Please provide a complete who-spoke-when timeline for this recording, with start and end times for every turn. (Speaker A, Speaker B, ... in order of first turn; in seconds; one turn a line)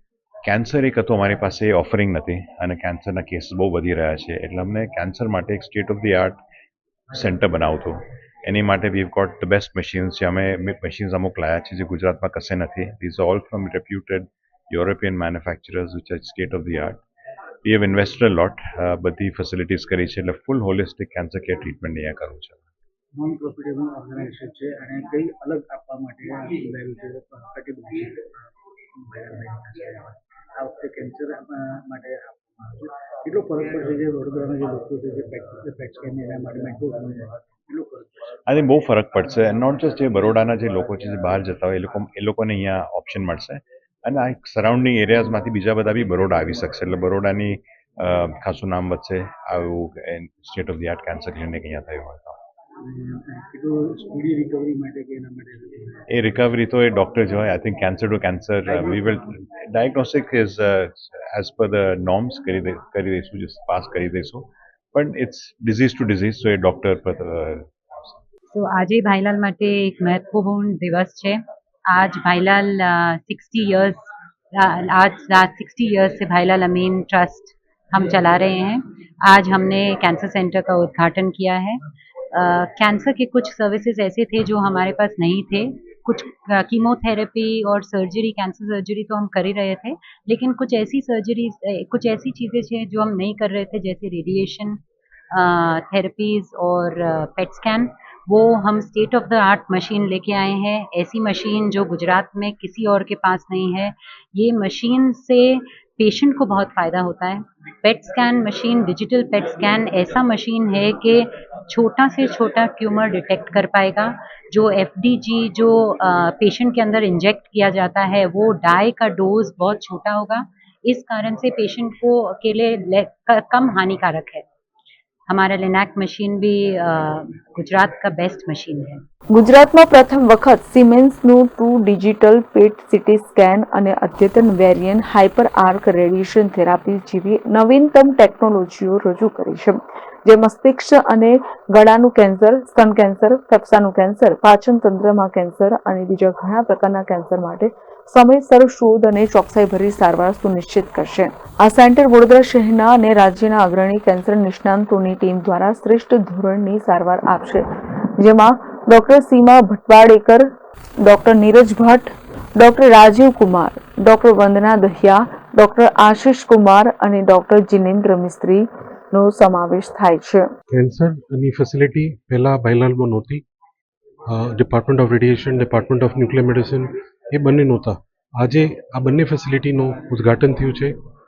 Speaker A: 0.4-6.4
Speaker A: 7.1-17.0
Speaker A: 17.6-22.6
Speaker B: 23.1-28.3
Speaker B: 29.0-38.4
Speaker A: 38.5-52.4
Speaker B: 52.8-56.0
Speaker A: 56.1-68.2
Speaker C: 68.5-81.8
Speaker C: 82.3-124.4
Speaker C: 125.3-129.0
Speaker D: 129.3-160.5
Speaker D: 161.0-170.5
Speaker E: 170.7-173.4
Speaker E: 174.3-180.9